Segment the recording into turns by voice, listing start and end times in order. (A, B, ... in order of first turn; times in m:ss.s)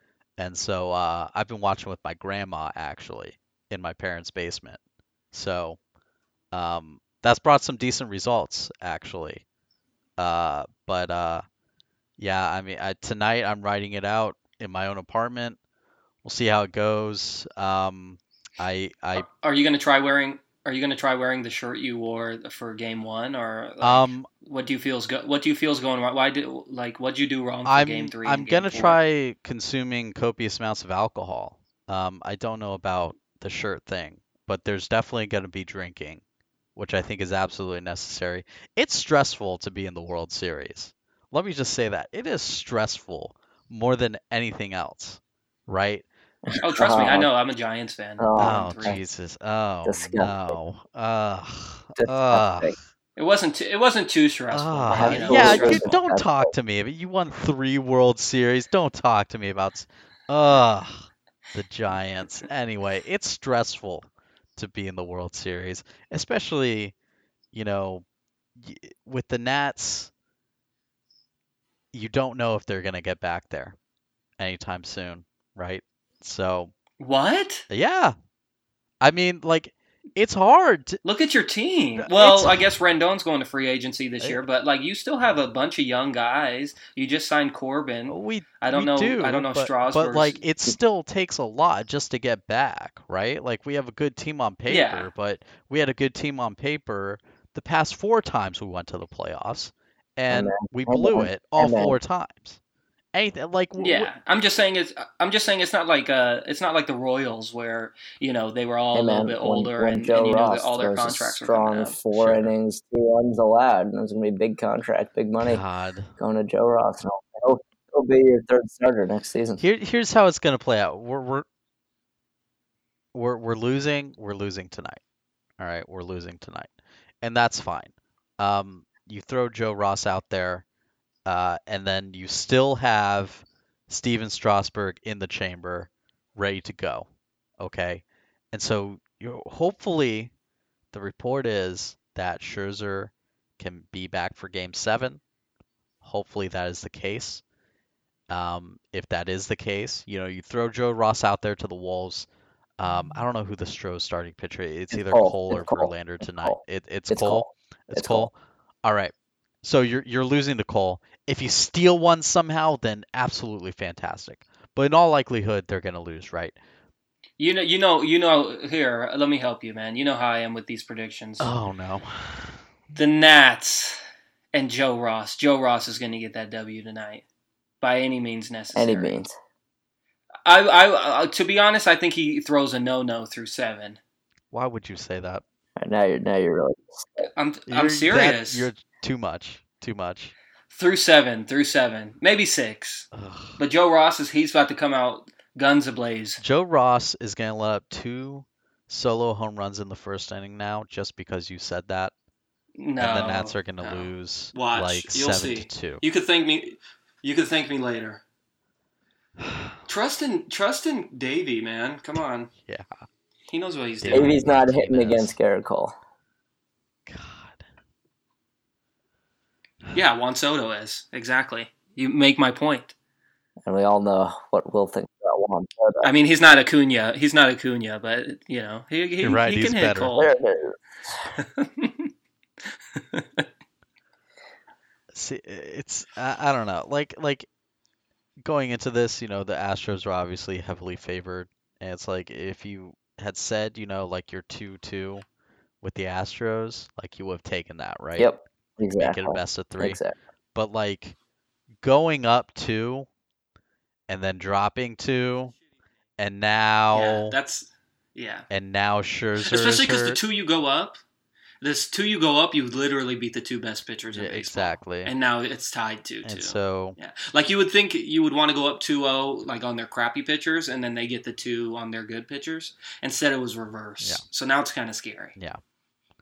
0:00.4-0:04.8 A
0:05.3-0:05.8 A
0:06.5-0:09.4 A
0:10.2-0:11.4 A
0:12.2-0:15.6 A
0:16.2-0:19.2 A
0:19.2-0:29.0 B
0:23.8-0:24.3 A
0:27.7-0:36.2 A
0:36.8-0:46.0 A
0:46.5-0:47.3 C
0:46.6-0:49.0 B
0:48.2-0:49.0 C
0:48.4-0:52.8 A
0:49.8-0:50.6 C
0:52.0-0:52.8 C
0:53.2-0:56.0 B
0:54.5-1:06.9 A
0:54.9-0:56.5 C
1:07.5-1:08.0 A
1:08.6-1:10.1 A
1:11.9-1:13.8 A
1:14.4-1:16.7 A
1:17.0-1:17.7 B
1:17.7-1:18.2 A
1:19.0-1:21.0 A
1:21.0-1:30.4 B
1:22.0-1:22.7 A
1:28.1-1:42.6 A
1:34.7-1:35.1 B
1:40.3-1:42.0 C
1:43.1-1:44.1 A
1:43.8-1:52.0 B
1:48.9-1:55.6 C
1:52.1-1:52.5 A
1:55.4-1:56.1 A
1:56.2-1:59.6 C
1:59.6-2:01.4 A
2:03.1-2:05.0 A
2:05.6-2:06.7 A
2:07.2-2:10.6 A
2:11.3-2:20.3 A
2:20.9-2:25.2 A
2:26.0-2:27.4 A
2:28.3-2:32.3 A
2:32.8-2:46.6 A
2:34.9-2:36.6 C
2:37.1-2:38.3 C
2:47.4-2:51.5 B
2:51.4-2:52.6 A
2:52.9-2:57.3 B
2:57.8-2:59.1 B
2:58.7-2:59.3 C
3:00.4-3:04.0 B
3:04.5-3:05.4 A
3:05.8-3:07.3 C
3:07.2-3:08.7 B
3:07.7-3:10.3 A
3:10.7-3:16.4 B
3:13.1-3:13.6 A
3:16.4-3:22.1 A
3:22.8-3:28.2 B
3:23.0-3:26.0 A
3:29.4-3:29.8 A
3:29.9-3:32.5 B
3:32.7-3:33.0 A
3:33.5-3:34.4 B
3:34.0-3:35.3 A
3:34.1-3:35.9 C
3:37.1-3:37.6 A
3:39.9-3:42.9 B
3:43.7-3:46.1 C
3:46.0-3:50.3 B
3:49.2-3:50.1 A
3:50.2-3:50.8 C
3:51.4-3:52.1 B
3:53.0-3:53.5 B
3:55.1-3:57.5 A
3:58.4-4:05.2 A
4:05.8-4:08.3 A
4:08.2-4:10.1 C
4:09.0-4:10.0 A
4:10.6-4:11.2 A
4:11.8-4:13.1 A
4:14.1-4:15.5 A
4:16.2-4:17.4 A
4:16.9-4:18.5 B
4:18.5-4:20.2 A
4:19.4-4:21.0 B
4:21.6-4:35.4 B
4:24.1-4:25.1 A
4:26.2-4:27.0 A